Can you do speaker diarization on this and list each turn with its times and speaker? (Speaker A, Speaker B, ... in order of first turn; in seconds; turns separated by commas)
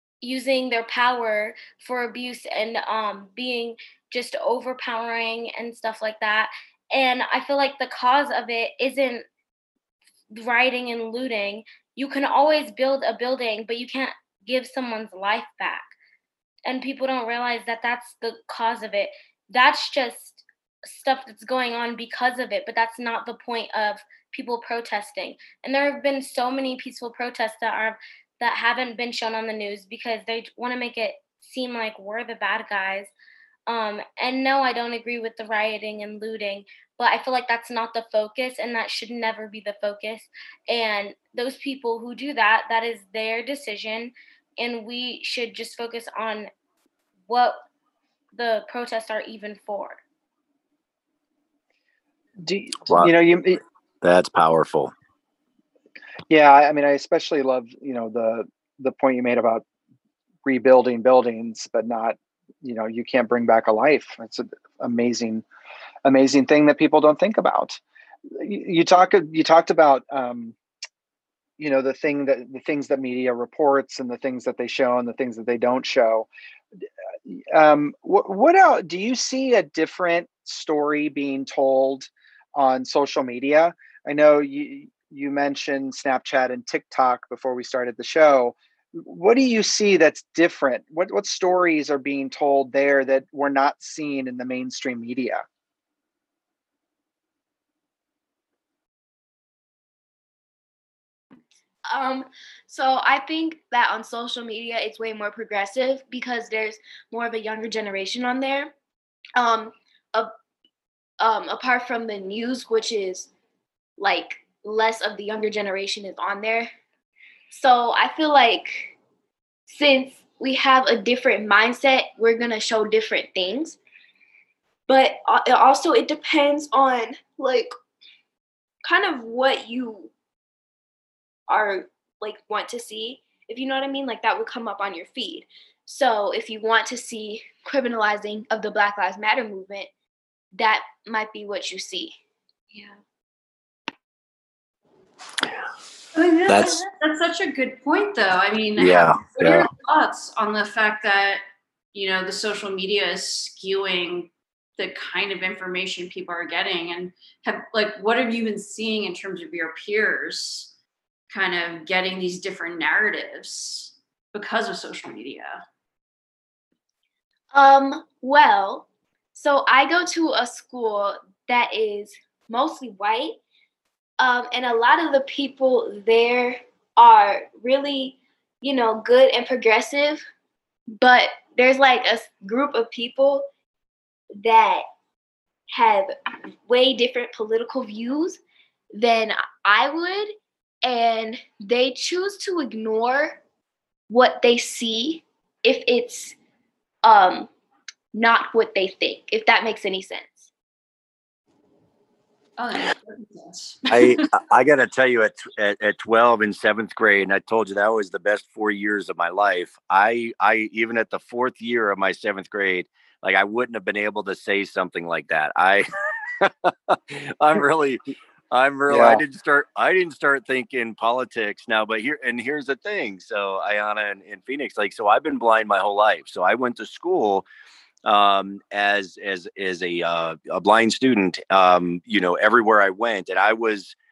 Speaker A: 0.2-9.2, Speaker A: 10.3-15.9, Speaker A: 16.6-33.1, Speaker A: 33.7-46.5, Speaker A: 47.3-47.6, Speaker A: 48.3-50.0, Speaker B: 52.4-53.6, Speaker C: 52.9-53.1, Speaker C: 54.0-54.9, Speaker B: 56.3-59.6, Speaker B: 60.4-65.4, Speaker B: 66.0-67.8, Speaker B: 68.3-70.5, Speaker B: 71.6-76.3, Speaker B: 77.3-95.4, Speaker D: 101.9-108.7, Speaker D: 109.3-110.3, Speaker D: 111.2-113.3, Speaker D: 114.0-116.7, Speaker D: 117.5-118.9, Speaker D: 119.7-123.8, Speaker D: 124.9-127.7, Speaker D: 128.8-130.1, Speaker D: 131.5-139.9, Speaker D: 140.5-142.2, Speaker E: 146.1-151.4, Speaker C: 146.5-146.8, Speaker C: 148.8-149.7, Speaker E: 151.9-160.7, Speaker E: 161.3-165.6, Speaker D: 167.5-173.4, Speaker D: 174.2-180.2, Speaker D: 180.9-183.4, Speaker D: 184.4-184.8, Speaker D: 185.7-186.1, Speaker D: 186.6-188.4, Speaker D: 188.9-193.4, Speaker D: 194.1-196.3, Speaker D: 197.0-197.5, Speaker D: 198.1-200.5, Speaker E: 202.6-204.2, Speaker C: 203.9-215.9, Speaker C: 216.4-218.0, Speaker C: 218.5-227.4, Speaker B: 218.9-219.2, Speaker C: 228.0-233.9